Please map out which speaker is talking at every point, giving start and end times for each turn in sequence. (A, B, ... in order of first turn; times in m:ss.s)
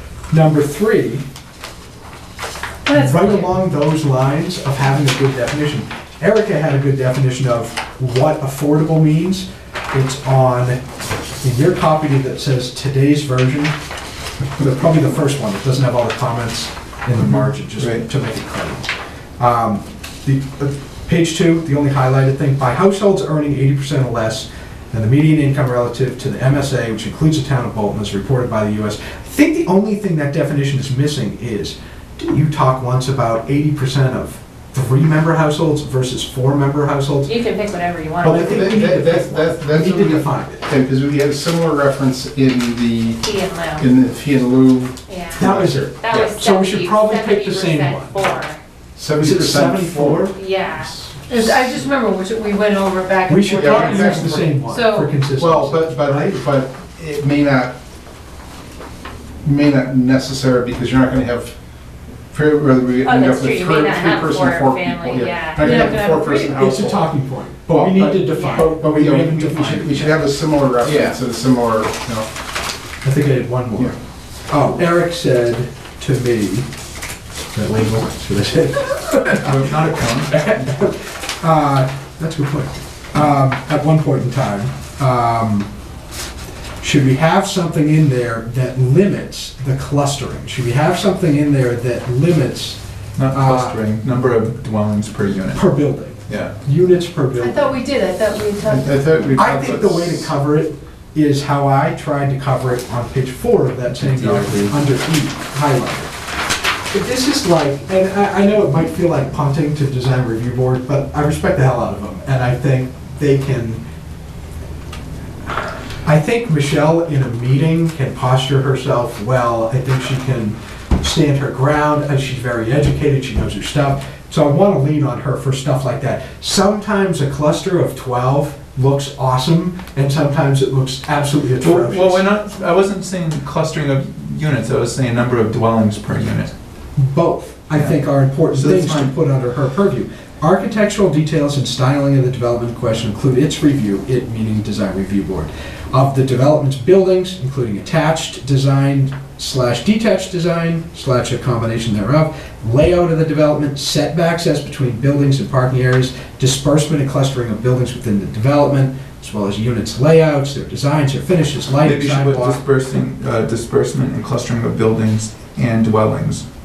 0:00.3-0:01.2 A
0:02.8-0:03.5 B
0:02.9-0:10.8 A
0:11.4-0:13.8 A
0:14.6-0:37.3 A
0:17.2-0:18.0 C
0:37.2-0:39.0 D
0:38.2-0:40.7 A
0:38.3-0:43.2 E
0:43.2-0:43.9 D
0:43.8-0:46.3 E
0:45.1-0:48.6 D
0:45.4-0:48.2 A
0:49.0-0:51.6 E
0:49.2-0:50.4 A
0:50.3-0:50.9 D
0:51.3-0:55.2 B
0:53.3-0:56.4 A
0:53.5-0:54.6 E
0:55.3-0:57.8 E
0:59.4-1:01.6 E
1:02.3-1:07.1 E
1:03.0-1:06.0 D
1:05.6-1:06.7 B
1:06.6-1:10.3 A
1:07.7-1:12.3 E
1:08.3-1:08.8 D
1:10.8-1:11.2 A
1:13.0-1:14.0 A
1:14.5-1:16.7 A
1:17.5-1:25.7 A
1:19.4-1:20.5 C
1:26.8-1:32.8 A
1:33.2-1:35.6 C
1:33.3-1:33.8 A
1:35.5-1:37.8 A
1:36.3-1:36.6 C
1:37.4-1:39.3 B
1:38.6-1:40.3 E
1:39.3-1:46.1 A
1:43.9-1:44.8 C
1:46.9-1:53.8 A
1:56.0-2:12.2 A
2:11.6-2:16.5 C
2:17.0-2:42.6 A
2:17.7-2:19.1 C
2:41.8-2:46.4 C